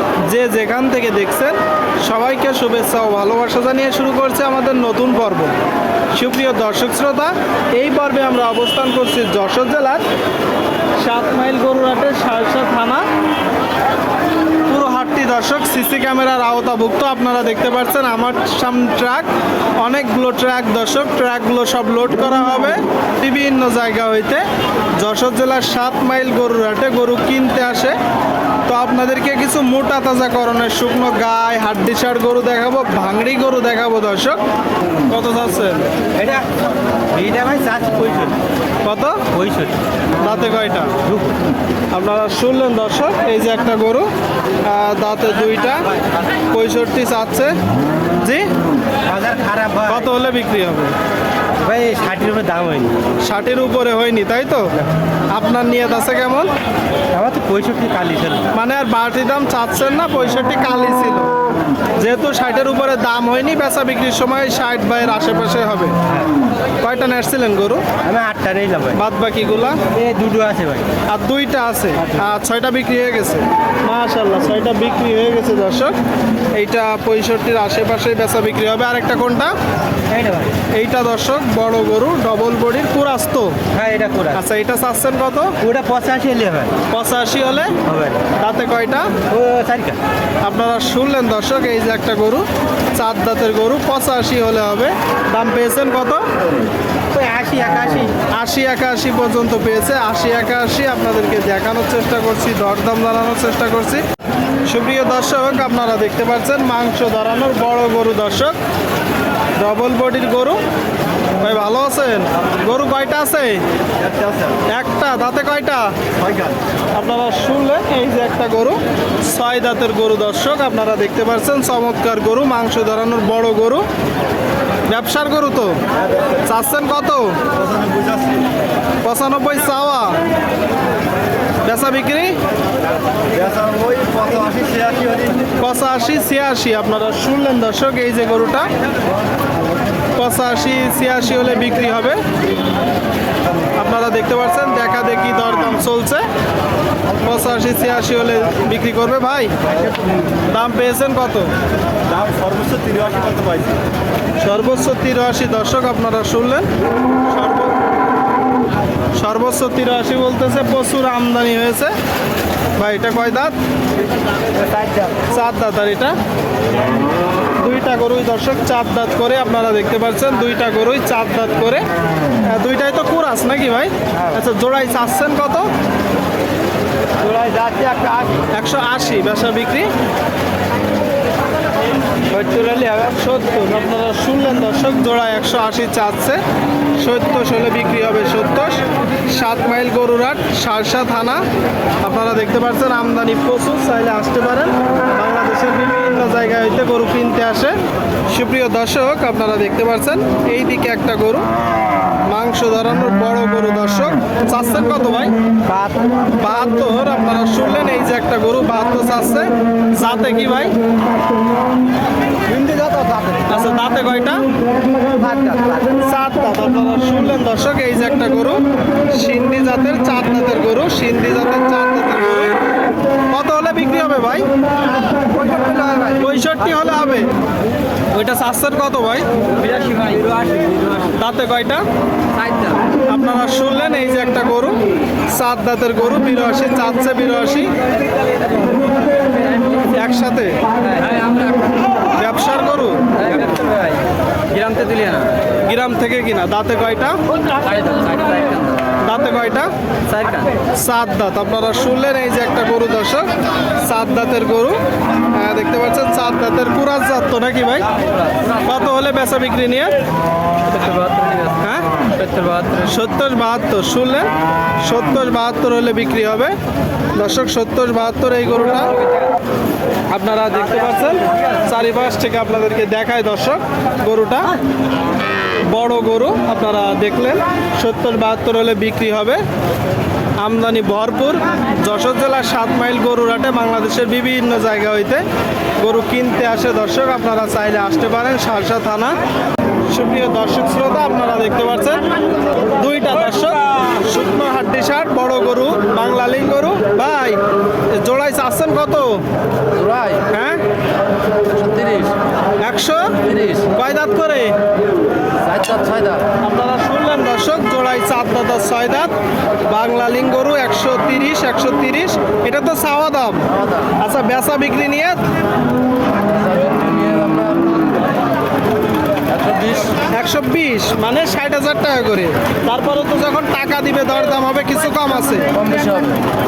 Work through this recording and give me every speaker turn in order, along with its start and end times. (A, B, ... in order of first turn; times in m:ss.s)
0:00.2-0:05.5 A
0:06.1-0:10.0 A
0:11.0-0:13.0 A
0:14.7-0:24.4 A
0:25.0-0:28.0 A
0:28.6-0:34.4 A
0:35.1-0:35.9 A
0:36.1-0:36.5 B
0:37.1-0:38.4 B
0:38.8-0:39.2 A
0:39.3-0:39.8 B
0:40.2-0:41.0 A
0:41.0-0:41.4 B
0:41.9-0:44.1 A
0:44.6-0:45.8 A
0:46.5-0:47.6 A
0:48.2-0:48.5 A
0:49.0-0:50.1 B
0:49.9-0:50.9 A
0:51.6-0:52.9 B
0:53.2-0:54.7 A
0:55.3-0:56.5 A
0:57.1-0:58.5 B
0:58.5-1:01.3 A
1:02.0-1:06.0 A
1:06.8-1:07.8 A
1:08.0-1:09.0 B
1:08.9-1:09.8 A
1:09.9-1:10.9 B
1:11.1-1:15.9 A
1:16.6-1:19.5 A
1:20.1-1:20.6 B
1:20.7-1:23.6 A
1:23.7-1:24.4 B
1:24.3-1:25.5 A
1:25.6-1:26.7 B
1:26.9-1:27.8 A
1:27.8-1:28.2 B
1:28.4-1:29.1 A
1:29.3-1:30.0 B
1:30.4-1:36.2 A
1:37.1-1:38.1 B
1:38.3-1:44.0 A
1:44.6-1:48.6 A
1:49.6-1:50.6 A
1:51.4-1:53.6 A
1:54.1-1:54.6 B
1:54.7-1:55.9 A
1:56.3-1:56.5 B
1:56.9-2:03.8 A
2:04.9-2:05.8 A
2:06.4-2:07.5 A
2:07.8-2:08.4 B
2:09.0-2:10.2 A
2:11.6-2:12.4 A
2:13.4-2:15.4 B
2:15.6-2:18.7 A
2:20.2-2:22.2 A
2:23.8-2:26.2 A
2:27.2-2:29.5 A
2:30.5-2:31.5 A
2:32.1-2:33.8 B
2:34.4-2:36.7 A
2:37.3-2:37.8 A
2:39.1-2:41.9 A
2:42.8-2:43.5 A
2:44.5-2:45.2 B
2:45.3-2:46.2 A
2:47.6-2:51.8 A
2:52.4-2:55.7 A
2:57.2-2:58.4 B
2:58.5-2:59.9 A
3:02.3-3:06.4 A
3:07.0-3:11.4 A
3:12.0-3:21.4 A
3:22.2-3:25.3 A
3:25.7-3:26.3 B
3:26.3-3:30.8 A
3:32.4-3:33.6 B
3:33.5-3:34.5 A
3:34.9-3:36.0 B
3:36.0-3:42.6 A
3:43.3-3:44.5 A
3:45.2-3:46.2 B
3:46.1-3:47.3 A
3:48.1-3:49.3 A
3:49.6-3:50.9 B
3:51.1-3:51.8 A
3:53.0-3:57.8 A
3:59.8-4:00.6 A
4:02.1-4:03.2 A
4:04.5-4:05.3 B
4:05.6-4:07.2 A
4:07.7-4:08.6 B
4:09.0-4:09.7 A
4:10.1-4:10.5 B
4:10.7-4:14.8 A
4:15.3-4:17.9 A
4:18.6-4:19.9 A
4:20.8-4:21.5 B
4:21.6-4:24.3 A
4:24.8-4:26.5 A
4:27.2-4:29.0 A
4:30.1-4:34.5 A
4:35.6-4:39.4 A
4:40.4-4:45.2 A
4:45.8-4:49.2 A
4:49.9-4:52.0 A
4:52.7-4:57.4 A
4:57.9-4:59.2 A
4:59.7-5:00.2 B
5:00.3-5:00.6 A
5:01.5-5:02.1 B
5:02.6-5:04.6 A
5:05.4-5:06.2 B
5:06.4-5:09.1 A
5:09.6-5:15.2 A
5:16.4-5:17.8 B
5:19.4-5:19.9 B
5:20.0-5:25.5 A
5:25.6-5:26.1 B